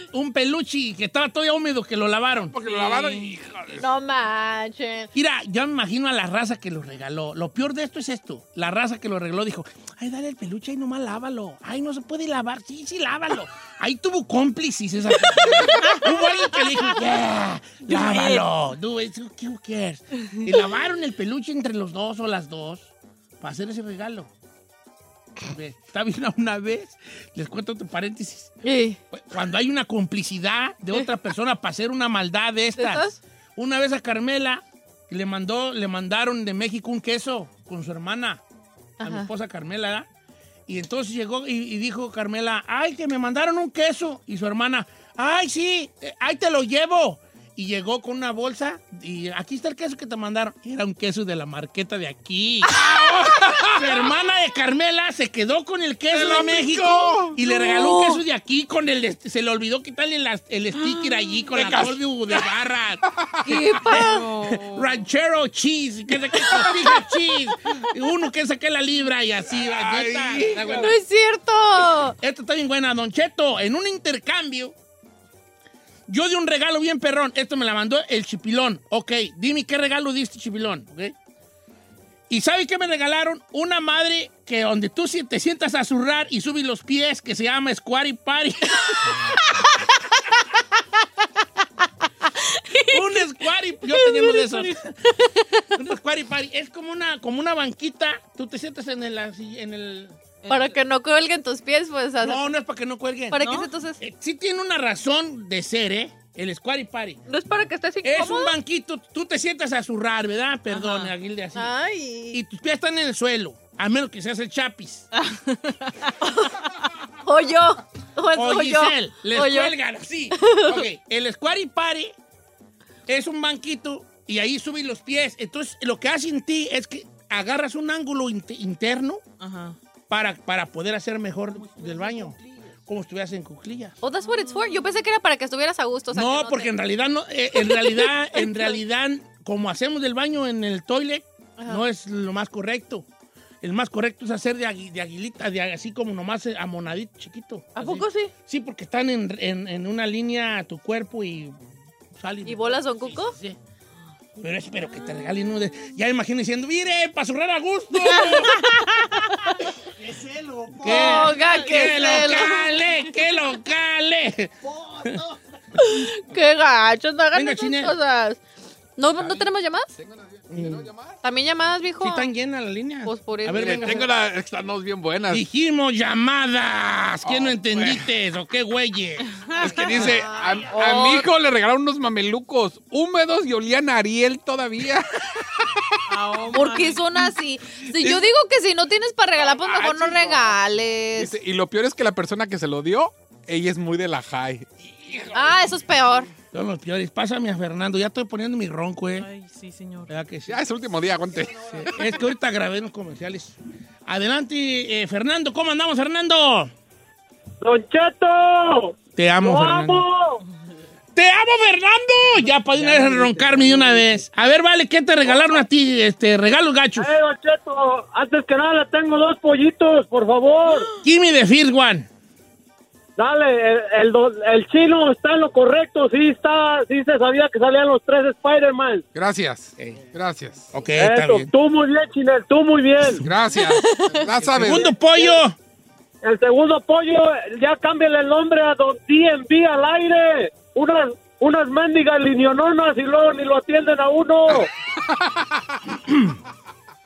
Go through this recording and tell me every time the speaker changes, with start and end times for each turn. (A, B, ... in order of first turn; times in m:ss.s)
0:00.1-0:02.6 A
0:02.5-0:03.9 B
0:02.6-0:03.3 C
0:03.8-0:05.1 D
0:05.1-0:22.9 A
0:17.8-0:18.5 C
0:23.4-0:24.3 A
0:25.4-0:28.5 A
0:28.6-0:29.0 D
0:29.1-0:38.4 A
0:32.8-0:33.2 D
0:39.0-0:39.3 D
0:39.0-0:40.1 A
0:40.7-0:52.8 A
0:52.7-0:54.1 B
0:53.7-1:03.0 A
0:56.1-0:58.0 B
1:00.8-1:01.3 C
1:01.5-1:02.0 B
1:03.4-1:04.5 D
1:03.8-1:10.9 A
1:03.9-1:04.9 C
1:06.3-1:06.9 B
1:09.6-1:10.9 B
1:10.8-1:12.2 D
1:12.2-1:14.7 A
1:16.1-1:21.1 A
1:22.3-1:29.1 A
1:29.4-1:29.7 D
1:32.3-1:33.0 D
1:32.9-1:35.0 A
1:33.9-1:35.6 D
1:35.7-1:40.2 A
1:40.4-1:40.8 C
1:40.5-1:42.5 D
1:42.2-1:43.4 A
1:43.3-1:44.0 D
1:43.4-1:43.7 C
1:44.0-1:47.2 A
1:47.3-1:48.5 D
1:48.0-1:51.7 A
1:50.7-1:51.1 C
1:51.6-1:52.4 D
1:52.3-1:55.1 A
1:55.2-1:56.1 C
1:57.2-1:59.7 D
1:58.3-2:02.1 A
2:00.3-2:00.8 D
2:03.1-2:09.2 A
2:09.4-2:09.8 C
2:10.1-2:14.0 A
2:14.0-2:16.7 D
2:14.2-2:14.9 C
2:16.1-2:23.0 A
2:23.6-2:31.6 A
2:27.8-2:28.3 D
2:32.1-2:33.6 A
2:32.4-2:33.4 D
2:34.4-2:39.1 A
2:38.0-2:38.7 D
2:40.5-2:45.4 A
2:40.8-2:42.7 D
2:45.8-2:48.4 D
2:47.3-2:47.9 A
2:49.0-2:49.9 D
2:49.1-2:51.2 B
2:50.5-2:50.9 A
2:51.2-2:52.3 D
2:52.0-2:54.1 A
2:53.0-2:54.1 D
2:53.5-2:55.4 B
2:55.3-2:59.3 A
2:57.2-2:58.1 B
2:59.3-2:59.9 C
2:59.6-3:05.9 B
2:59.6-3:01.3 D
3:06.1-3:07.0 C
3:06.5-3:11.3 D
3:07.9-3:08.3 B
3:09.4-3:10.6 B
3:11.1-3:15.4 B
3:15.3-3:16.3 D
3:16.5-3:19.3 A
3:19.2-3:20.1 C
3:20.1-3:20.6 A
3:20.5-3:22.2 B
3:21.6-3:26.7 A
3:27.6-3:30.4 E
3:29.2-3:30.0 A
3:31.1-3:37.1 A
3:37.0-3:40.8 E
3:41.0-3:42.1 A
3:43.2-3:49.0 E
3:49.1-3:50.7 B
3:50.7-3:51.5 A
3:51.0-3:53.2 E
3:53.1-3:54.9 B
3:53.6-3:54.2 D
3:54.5-3:55.6 A
3:54.7-3:55.4 E
3:56.2-4:04.7 E
4:04.5-4:05.8 B
4:06.1-4:06.3 A